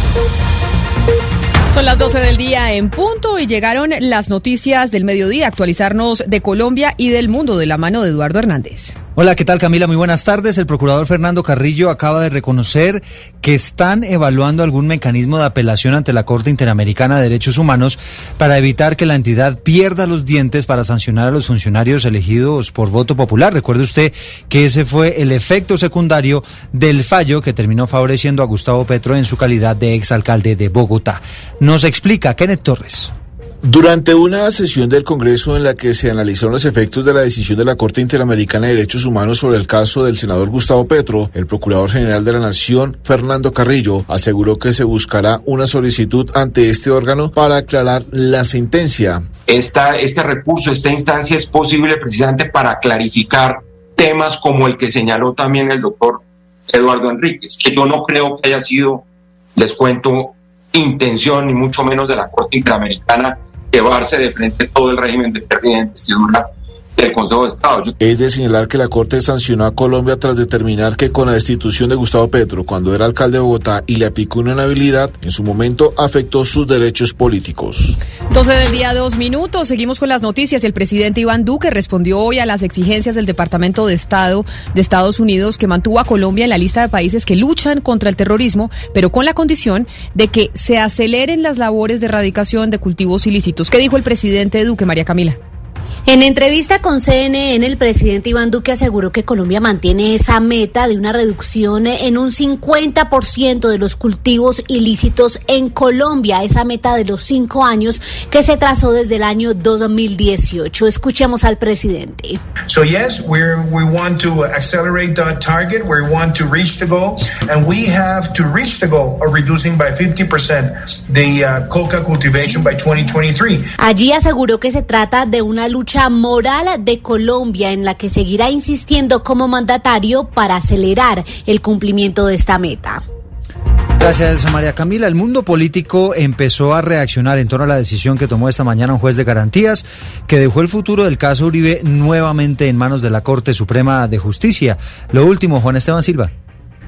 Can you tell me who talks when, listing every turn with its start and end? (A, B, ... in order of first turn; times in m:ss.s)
0:01.7-0:08.9 A
0:09.2-0:33.1 B
0:33.7-0:49.2 C
0:49.5-0:56.1 D
0:56.7-0:59.0 D
0:59.6-1:06.4 D
1:07.0-1:07.9 D
1:08.0-1:18.0 C
1:18.3-1:35.4 A
1:36.1-1:52.4 E
1:52.7-2:03.6 F
2:03.8-2:13.0 E
2:14.0-2:26.3 B